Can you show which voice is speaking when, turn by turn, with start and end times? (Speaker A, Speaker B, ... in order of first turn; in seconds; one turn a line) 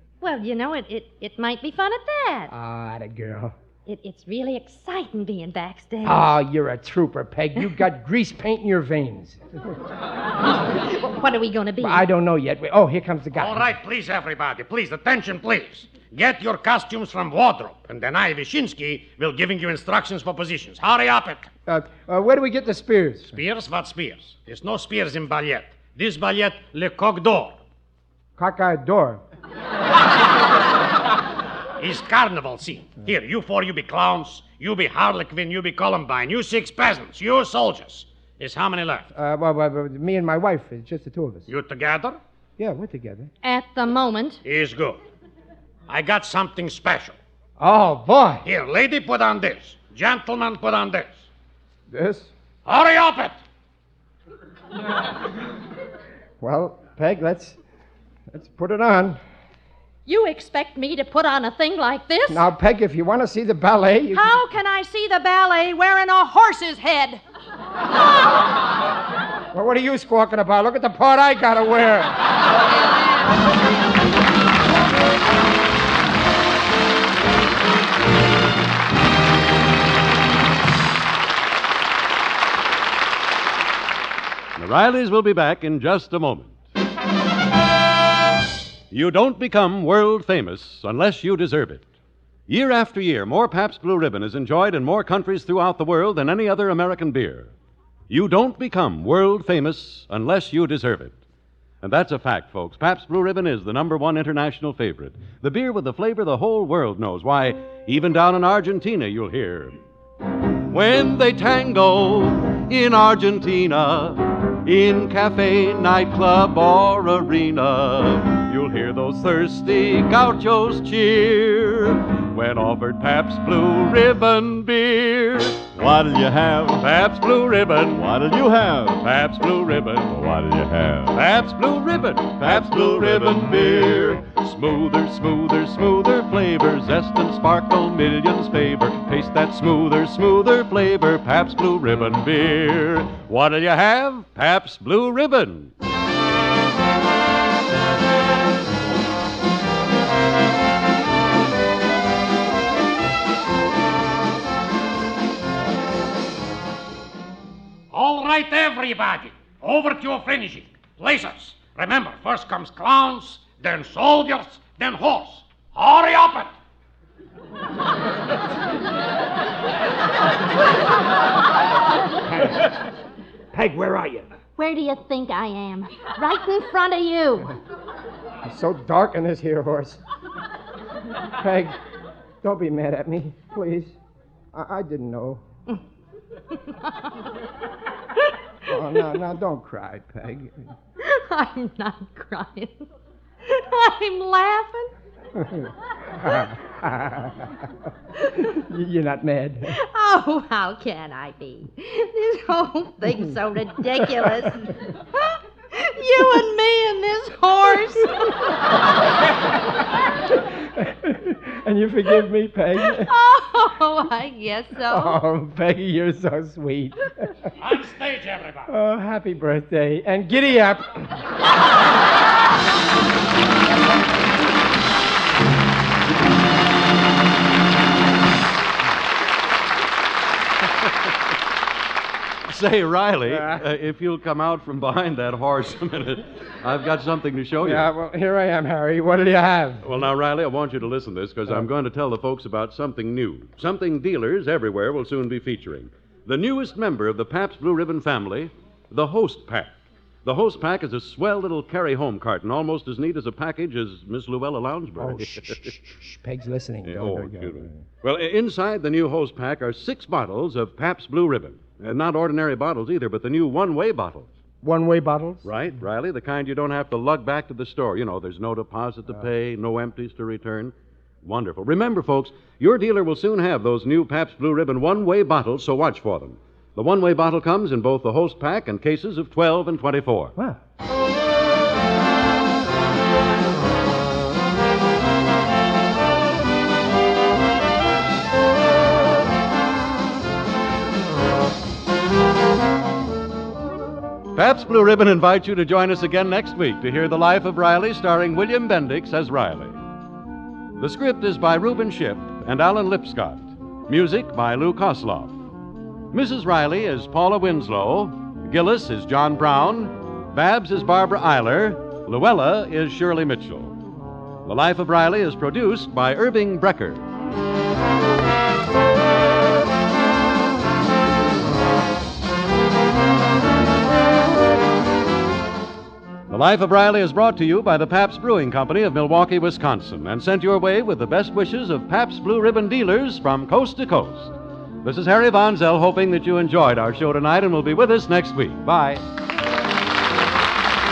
Speaker A: 0.2-2.5
Speaker B: 2.5-3.5
Speaker A: 3.9-6.3
Speaker B: 6.0-9.7
Speaker A: 10.7-12.1
Speaker B: 11.8-13.7
Speaker C: 13.3-21.5
Speaker B: 21.6-23.4
Speaker C: 23.3-27.6
Speaker B: 28.4-29.2
Speaker C: 31.8-39.1
Speaker B: 39.1-41.5
Speaker C: 41.5-42.2
Speaker B: 42.6-43.3
Speaker A: 43.4-44.4
Speaker C: 44.4-45.0
Speaker C: 45.9-47.2
Speaker B: 47.6-48.5
Speaker C: 48.4-51.3
Speaker B: 51.9-52.3
Speaker C: 52.6-53.4
Speaker B: 56.4-57.6
Speaker B: 58.3-59.2
Speaker A: 60.0-62.5
Speaker B: 62.3-64.3
Speaker A: 64.1-67.2
Speaker B: 69.5-72.2
Speaker D: 84.5-86.6
Speaker D: 88.9-91.8
Speaker D: 92.5-97.5
Speaker D: 98.1-101.1
Speaker D: 101.8-109.8
Speaker D: 110.7-125.9
Speaker E: 125.8-126.9
Speaker D: 126.7-128.0
Speaker E: 127.9-129.1
Speaker D: 129.0-130.1
Speaker E: 130.1-131.2
Speaker D: 131.1-145.7
Speaker E: 132.4-134.2
Speaker C: 157.9-166.5
Speaker B: 172.2-172.7
Speaker B: 173.5-174.3
Speaker A: 174.6-177.5
Speaker B: 178.4-180.0
Speaker B: 181.4-181.8
Speaker B: 182.4-184.0
Speaker B: 184.5-185.4
Speaker A: 186.5-187.3
Speaker B: 188.7-190.7
Speaker A: 191.0-192.9
Speaker A: 193.4-194.9
Speaker B: 195.3-197.7
Speaker B: 198.4-199.8
Speaker A: 199.7-208.5
Speaker B: 210.3-213.1
Speaker A: 212.8-215.2
Speaker B: 214.8-217.3
Speaker C: 217.6-218.7
Speaker B: 218.7-221.1
Speaker D: 232.5-237.9
Speaker B: 233.3-233.6
Speaker B: 237.6-239.9
Speaker D: 239.8-249.7
Speaker D: 250.2-255.7
Speaker B: 255.0-257.8
Speaker D: 256.8-264.3
Speaker B: 264.6-265.4
Speaker D: 265.4-270.7
Speaker D: 271.2-280.3
Speaker D: 294.3-299.8
Speaker D: 300.8-305.4
Speaker D: 306.1-313.8
Speaker D: 314.4-317.0
Speaker D: 326.3-339.0